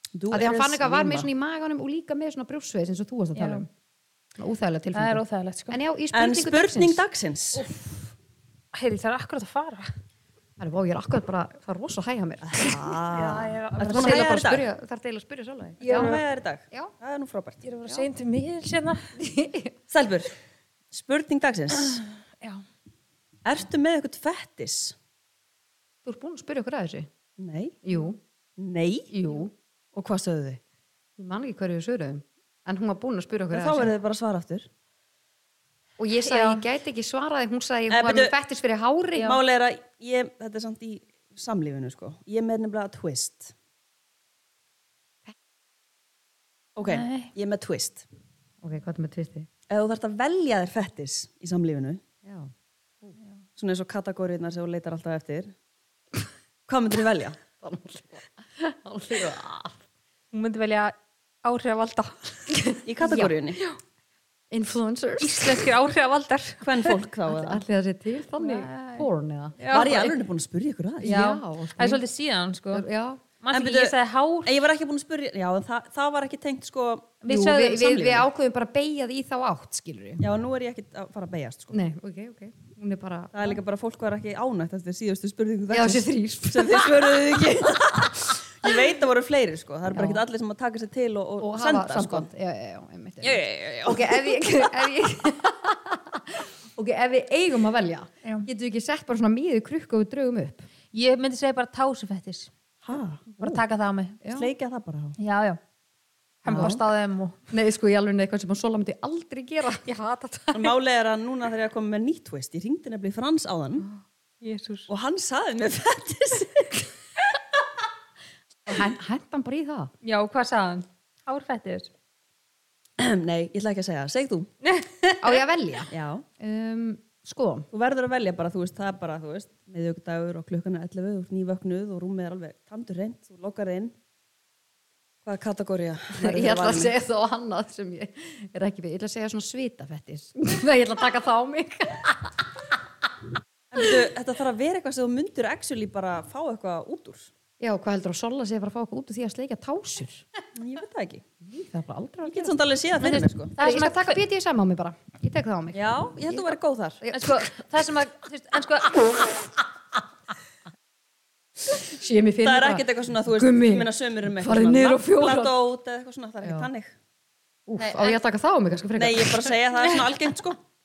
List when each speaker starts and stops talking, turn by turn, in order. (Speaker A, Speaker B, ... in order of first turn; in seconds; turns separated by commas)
Speaker A: 0.1-1.3, Speaker B: 0.3-3.7, Speaker C: 3.4-3.7, Speaker B: 4.4-7.0, Speaker C: 4.9-5.8, Speaker A: 6.1-7.7, Speaker C: 7.5-8.1, Speaker C: 8.7-9.9, Speaker B: 10.6-13.0, Speaker A: 12.4-14.7, Speaker C: 13.1-14.4, Speaker B: 13.9-16.9, Speaker C: 15.8-16.2, Speaker A: 15.8-17.6, Speaker C: 17.6-19.1, Speaker B: 19.2-19.8, Speaker A: 19.9-20.4, Speaker A: 20.9-22.1, Speaker A: 23.4-24.9, Speaker B: 26.0-27.1, Speaker A: 27.4-27.8, Speaker B: 27.9-28.2, Speaker A: 28.6-29.1, Speaker B: 29.1-29.5, Speaker A: 29.9-30.6, Speaker B: 31.2-33.9, Speaker A: 33.5-34.7, Speaker B: 36.0-39.4, Speaker C: 36.2-36.6, Speaker A: 37.9-38.3, Speaker A: 39.2-43.5, Speaker A: 46.8-48.0, Speaker C: 46.9-47.3, Speaker B: 48.6-49.5, Speaker A: 49.7-52.0, Speaker B: 52.2-53.2, Speaker A: 53.6-55.5, Speaker A: 56.7-57.4, Speaker B: 57.6-59.8, Speaker C: 60.3-62.6, Speaker B: 62.5-63.4, Speaker A: 62.9-63.6, Speaker B: 64.5-65.7, Speaker C: 65.2-66.9, Speaker A: 66.6-67.6, Speaker B: 67.3-69.6, Speaker C: 68.4-69.1, Speaker C: 69.6-70.2, Speaker A: 69.7-71.2, Speaker B: 71.0-72.0, Speaker C: 71.0-72.8, Speaker B: 72.7-73.2, Speaker C: 73.4-74.6, Speaker A: 73.5-78.3, Speaker C: 77.2-78.0, Speaker B: 77.3-80.2, Speaker A: 80.2-81.8, Speaker B: 81.7-83.6, Speaker A: 83.3-92.3, Speaker B: 85.7-88.8, Speaker B: 89.9-90.2, Speaker B: 91.4-100.7, Speaker A: 93.2-94.2, Speaker C: 100.9-102.5, Speaker A: 102.8-103.6, Speaker C: 103.3-104.2, Speaker B: 104.2-104.5, Speaker A: 104.3-105.2, Speaker C: 105.2-105.6, Speaker C: 106.4-107.5, Speaker B: 106.5-106.8, Speaker A: 106.5-106.8, Speaker B: 107.5-109.9, Speaker C: 109.8-110.7, Speaker A: 110.5-113.9, Speaker C: 114.4-114.9, Speaker A: 114.9-116.9, Speaker B: 118.7-119.9, Speaker C: 120.0-121.9, Speaker A: 123.0-124.5, Speaker C: 124.6-125.4, Speaker B: 125.2-127.7, Speaker A: 125.9-126.2, Speaker A: 127.7-133.9, Speaker A: 135.2-136.9, Speaker B: 136.1-143.1, Speaker A: 143.7-147.3, Speaker B: 147.6-150.3, Speaker A: 150.6-151.2, Speaker B: 151.4-152.6, Speaker A: 152.3-153.6, Speaker C: 153.0-154.2, Speaker B: 153.6-157.9, Speaker A: 155.7-157.0, Speaker C: 157.1-159.0, Speaker B: 158.8-159.5, Speaker B: 161.6-165.6, Speaker A: 162.4-166.9, Speaker B: 166.4-166.7, Speaker B: 167.7-169.6, Speaker C: 167.8-168.2, Speaker A: 169.0-170.6, Speaker C: 169.8-170.1